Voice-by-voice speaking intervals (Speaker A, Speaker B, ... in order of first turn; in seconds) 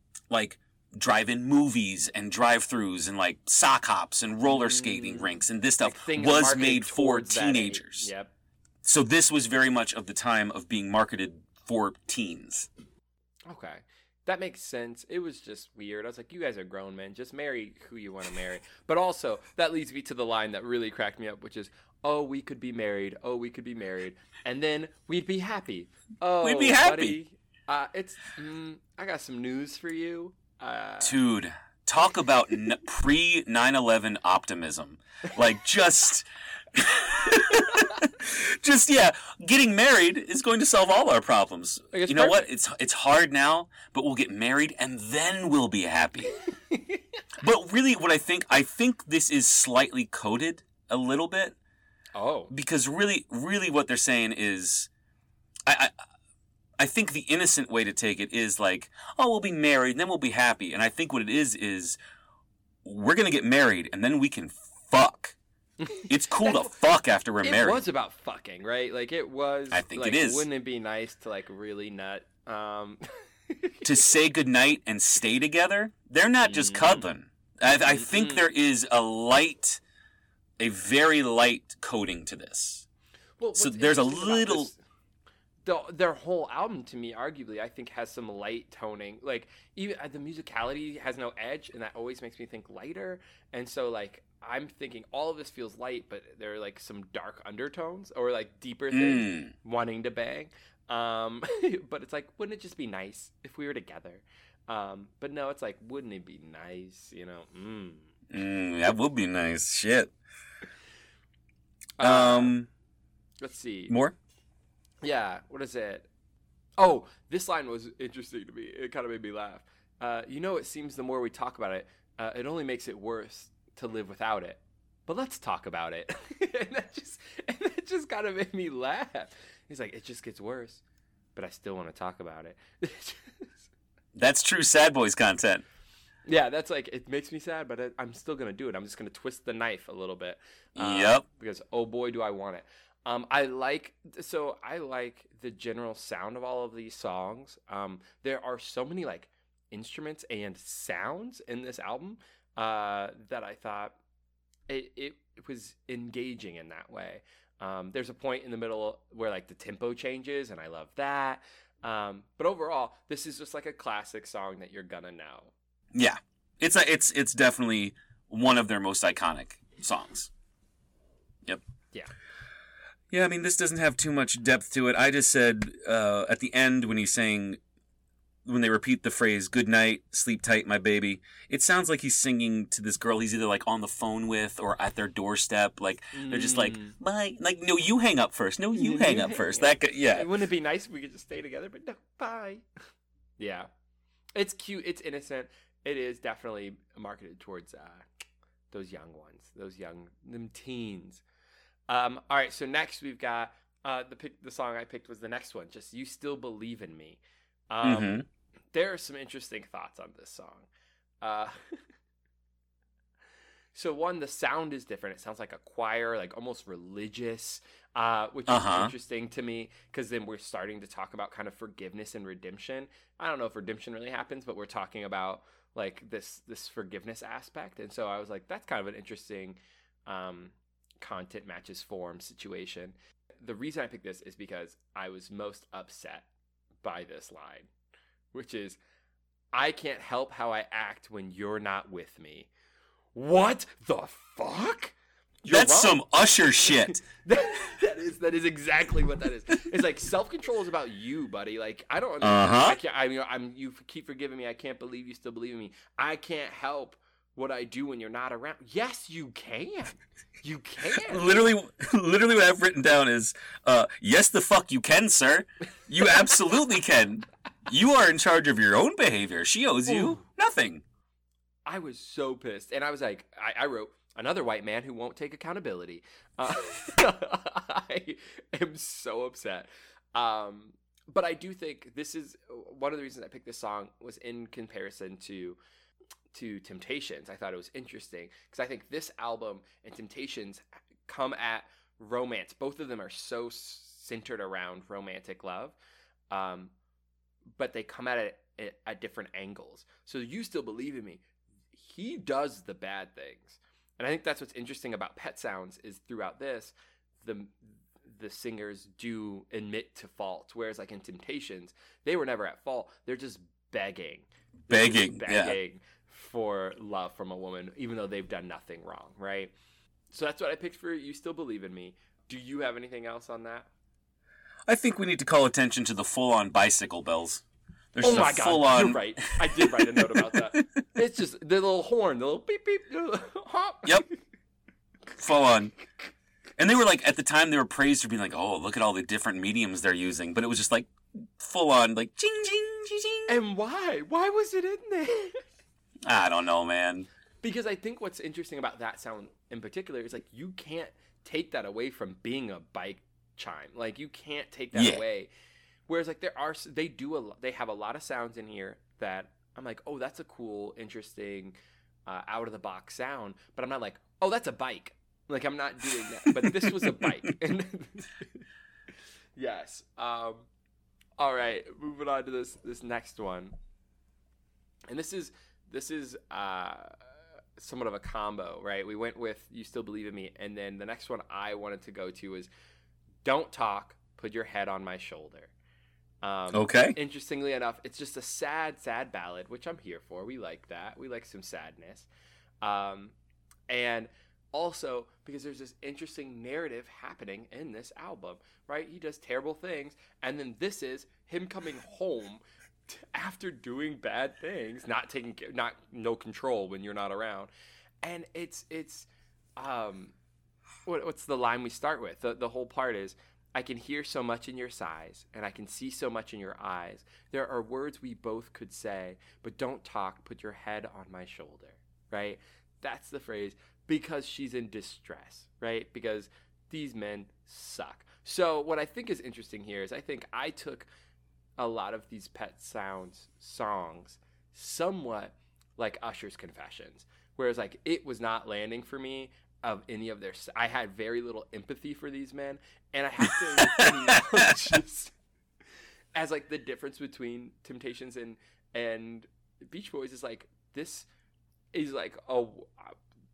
Speaker A: 0.3-8.1, 8.8-12.7, 26.4-27.2, 31.0-46.3, 47.4-51.5, 52.5-54.9, 55.6-55.9, 56.8-62.0, 62.8-65.4, 66.1-67.8, 69.7-70.4, 73.8-79.8, 80.6-82.8, 83.5-84.7, 98.9-99.5, 108.3-110.1, 112.0-112.7, 113.9-114.1, 134.1-135.6, 140.8-141.2, 165.9-170.3, 173.1-177.6, 178.4-190.3, 207.8-208.2, 218.5-218.9, 245.4-247.0, 252.2-252.8, 260.9-270.8, 314.7-315.6, 324.7-327.4, 327.9-330.6, 335.2-335.7, 336.6-343.3, 346.0-347.1, 354.7-355.0, 366.4-367.1, 386.5-386.9, 443.6-443.9
Speaker B: 4.4-5.3, 5.8-8.3, 13.4-31.2, 41.9-42.5, 46.7-47.0, 52.1-52.5, 65.8-66.7, 67.4-73.9, 76.4-77.0, 77.9-78.5, 83.4-84.8, 85.6-108.1, 112.0-112.5, 113.4-113.9, 115.0-116.1, 116.8-130.8, 131.3-133.5, 136.2-154.0, 154.7-165.5, 186.1-186.9, 188.7-192.7, 193.4-193.7, 194.3-198.1, 198.7-201.2, 201.9-207.2, 207.7-210.7, 211.2-211.8, 213.7-236.3, 236.8-237.7, 238.3-238.8, 239.5-242.5, 243.1-244.9, 245.4-246.0, 247.1-261.4, 269.8-270.2, 271.6-285.6, 286.3-295.8, 296.3-296.7, 297.6-319.5, 320.1-323.7, 328.0-334.1, 343.3-345.4, 347.4-355.3, 355.9-361.5, 362.1-368.4, 369.4-370.5, 371.2-373.5, 374.9-382.5, 383.2-385.5, 386.2-392.1, 392.6-393.1, 393.7-407.5, 408.0-410.1, 410.9-430.9, 431.6-445.1, 446.1-451.1, 451.7-452.9